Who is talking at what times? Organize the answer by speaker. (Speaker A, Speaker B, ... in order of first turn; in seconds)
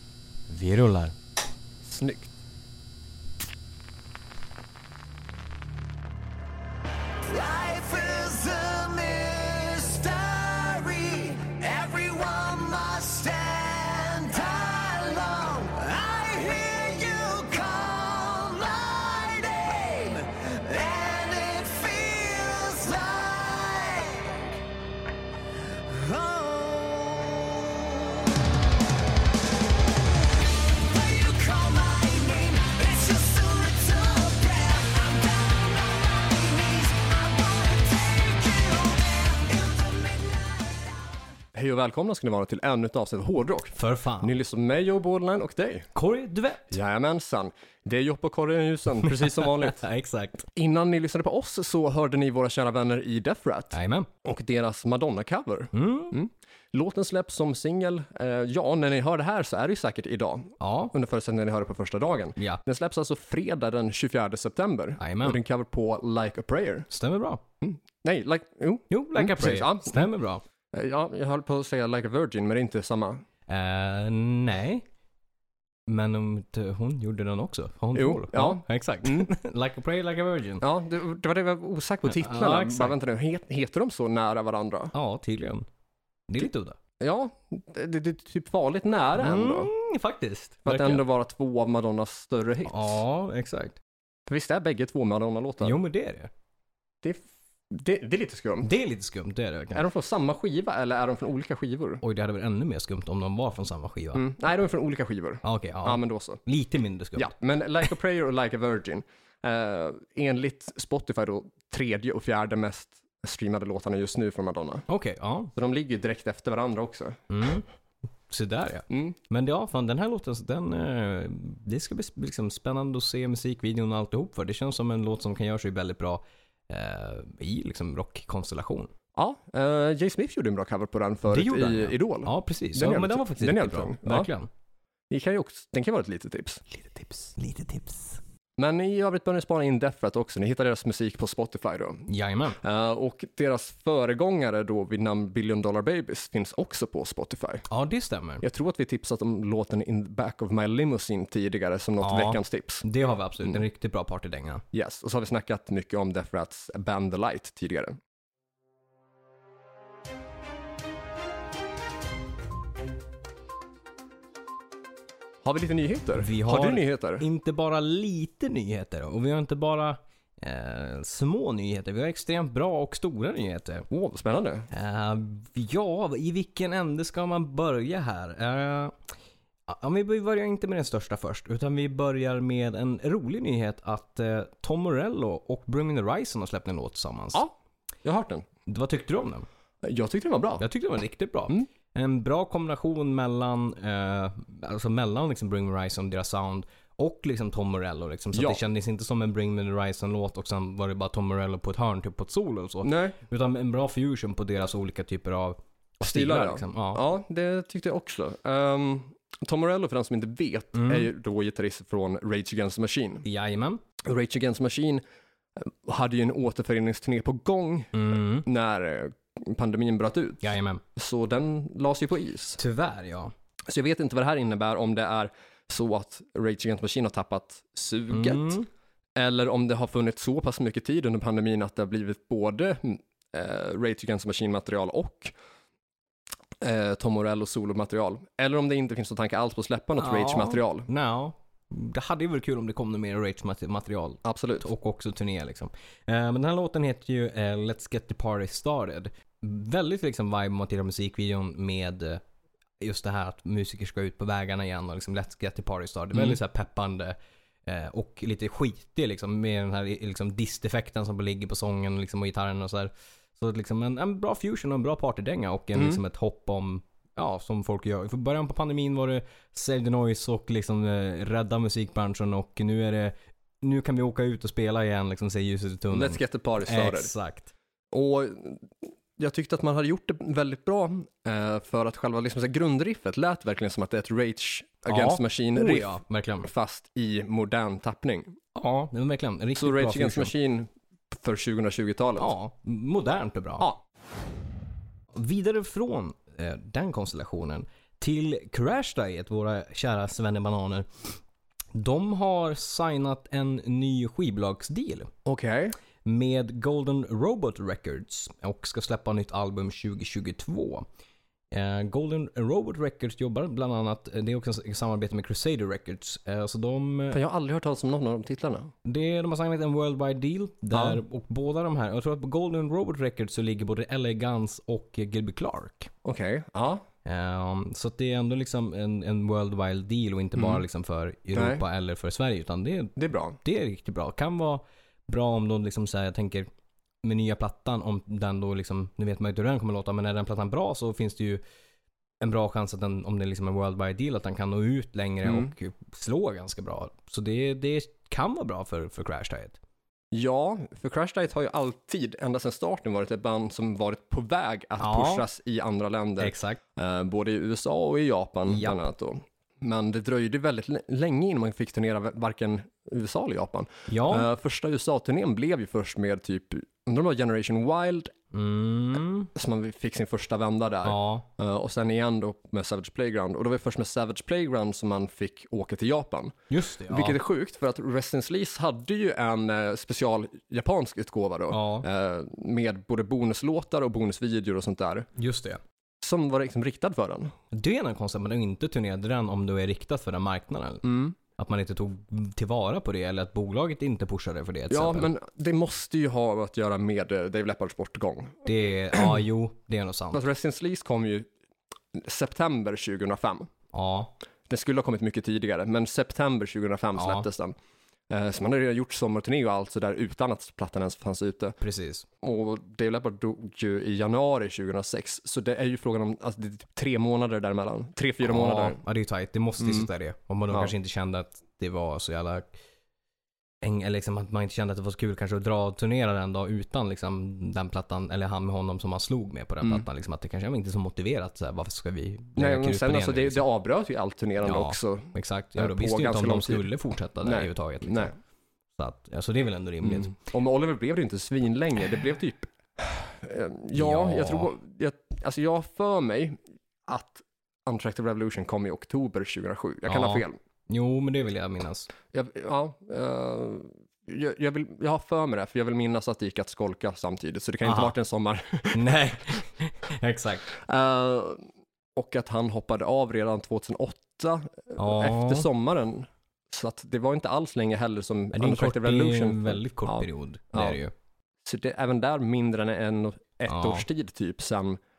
Speaker A: 0.5-1.1, 43.8-44.3, 45.9-46.8, 49.0-50.5, 53.7-54.1, 55.7-56.1, 60.6-60.9, 65.0-65.4, 66.9-67.4, 68.9-70.4, 73.5-74.8, 75.9-80.6, 82.1-83.0, 84.9-85.7, 86.3-86.8, 89.2-91.0, 92.7-93.8, 95.6-96.3, 98.6-99.8, 102.0-104.2, 105.4-107.3, 114.9-115.5, 117.3-117.6, 118.3-128.9, 131.3-134.5, 136.9-138.2, 142.1-142.6, 147.7-148.4, 152.0-154.6, 166.2-173.9, 174.7-179.0, 179.7-187.4, 188.7-189.4, 190.6-207.0, 210.7-211.1, 213.2-213.8, 217.9-218.4, 220.4-220.8, 222.6-223.3, 228.1-228.7, 240.0-252.2, 252.8-277.5, 284.9-286.5, 288.5-290.3, 292.2-293.6, 295.1-300.9, 301.7-305.1, 306.0-310.9, 311.5-317.2, 318.8-325.9, 327.0-336.5, 337.0-341.4, 342.2-349.6, 354.8-355.2, 356.2-356.6, 358.5-358.8, 363.9-364.3, 368.3-369.3, 370.8-371.2, 376.5-377.2, 381.5-381.9, 385.2-385.6, 387.5-395.1, 398.4-400.2, 403.7-404.1, 407.0-407.3, 411.6-412.1, 418.2-422.5, 423.6-433.4, 434.4-438.1, 438.8-440.1, 443.7-444.5, 449.9-451.9, 457.6-457.9, 458.7-460.5, 464.8-465.5, 468.3-470.9, 473.5-473.9
Speaker B: 1.8-2.3, 41.5-45.9, 46.7-49.8, 50.5-66.9, 67.6-70.1, 70.7-73.2, 77.9-79.3, 80.6-84.9, 87.0-89.7, 90.6-93.0, 94.3-95.8, 97.0-98.7, 99.7-102.0, 104.1-106.4, 107.2-114.8, 115.5-117.2, 118.9-119.2, 129.2-134.3, 135.1-136.6, 138.6-147.7, 148.4-152.8, 154.7-158.0, 165.4-167.2, 173.9-174.7, 188.0-188.5, 189.8-190.6, 198.3-198.6, 202.8-203.2, 206.0-213.2, 214.0-215.0, 215.6-222.6, 223.7-228.6, 229.2-235.3, 236.6-240.9, 244.2-244.7, 256.1-256.4, 265.7-266.0, 275.9-277.1, 277.9-288.4, 289.6-292.3, 305.2-305.8, 317.1-318.7, 320.7-321.0, 326.0-326.8, 330.4-330.6, 331.3-331.6, 333.0-333.4, 345.2-345.5, 350.1-368.1, 369.3-385.1, 386.0-387.3, 390.8-391.1, 394.7-399.1, 400.1-401.3, 401.9-403.5, 404.5-407.6, 408.1-411.6, 412.2-418.8, 419.6-419.9, 432.4-436.7, 437.2-438.1, 439.8-450.4, 452.1-458.9, 460.5-470.8, 471.4-474.8
Speaker C: 7.2-24.4, 25.9-28.4, 30.4-41.1